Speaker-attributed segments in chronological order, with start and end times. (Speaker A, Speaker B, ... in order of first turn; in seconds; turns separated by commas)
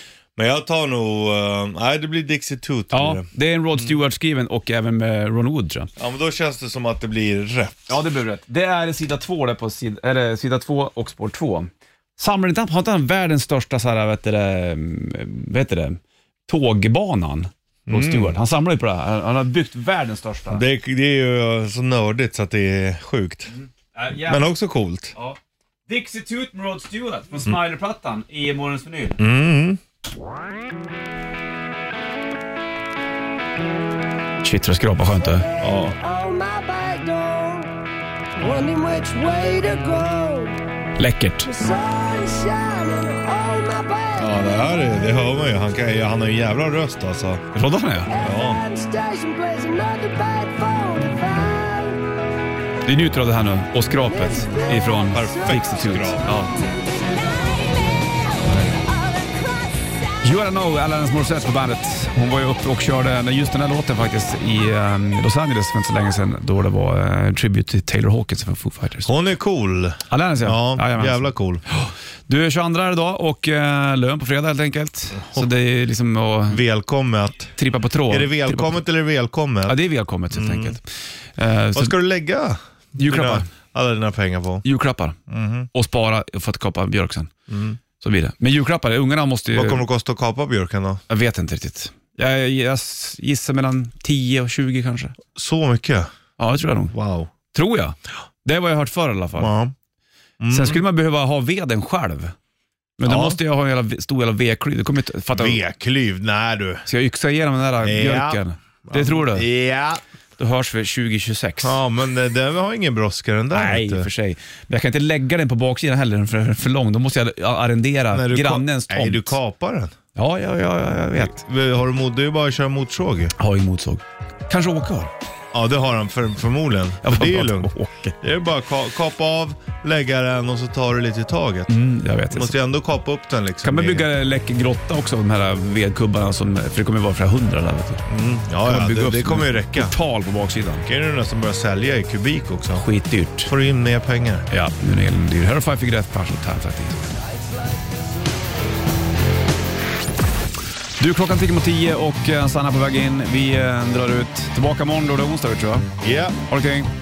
Speaker A: 0.4-3.3, Speaker B: 2.9-5.9, Speaker A: 6.0-7.9, Speaker B: 7.9-20.6, Speaker A: 17.9-18.4, Speaker A: 20.5-23.5, Speaker B: 23.5-24.4, Speaker A: 24.3-25.1, Speaker B: 25.1-29.2, Speaker A: 29.2-29.8, Speaker B: 34.4-35.5, Speaker A: 35.6-36.0, Speaker C: 35.6-37.7, Speaker C: 38.4-40.6, Speaker B: 41.0-41.5, Speaker C: 41.4-44.7, Speaker A: 44.2-47.4, Speaker B: 47.5-48.1, Speaker C: 48.1-52.1, Speaker A: 48.2-48.6, Speaker B: 52.9-56.6, Speaker C: 54.0-55.5, Speaker A: 55.1-56.3, Speaker C: 56.5-57.7, Speaker A: 58.4-58.7, Speaker B: 60.2-69.1, Speaker A: 69.1-71.6, Speaker B: 70.1-76.6, Speaker A: 75.2-75.5, Speaker A: 76.5-77.5, Speaker B: 77.5-78.8, Speaker A: 78.1-79.8, Speaker B: 79.7-81.9, Speaker A: 80.3-80.8, Speaker A: 81.7-84.6, Speaker B: 83.0-83.5, Speaker B: 84.6-85.2, Speaker A: 85.3-85.7, Speaker B: 85.7-87.3, Speaker A: 87.5-87.8, Speaker B: 88.0-89.8, Speaker A: 89.5-91.0, Speaker B: 91.1-95.2, Speaker A: 95.3-96.1, Speaker B: 96.4-97.0, Speaker A: 96.9-97.3, Speaker B: 97.5-99.5, Speaker A: 99.4-99.7, Speaker A: 100.4-100.8, Speaker B: 100.5-102.3, Speaker B: 103.0-105.6, Speaker A: 103.0-103.4, Speaker A: 105.3-106.8, Speaker B: 106.9-109.5, Speaker A: 107.8-110.0, Speaker B: 110.4-111.8, Speaker A: 111.6-114.1, Speaker B: 113.5-119.4, Speaker A: 118.1-120.0, Speaker B: 120.1-121.4, Speaker A: 121.2-123.3, Speaker B: 123.4-125.1, Speaker A: 125.5-131.7, Speaker B: 127.0-128.2, Speaker B: 131.7-132.5, Speaker A: 132.3-134.1, Speaker B: 133.6-138.1, Speaker A: 138.1-139.9, Speaker B: 138.6-140.9, Speaker A: 140.9-142.8, Speaker B: 142.8-143.5, Speaker A: 143.4-144.5, Speaker B: 144.5-147.0, Speaker B: 151.0-155.9, Speaker A: 156.0-156.4, Speaker B: 156.5-156.9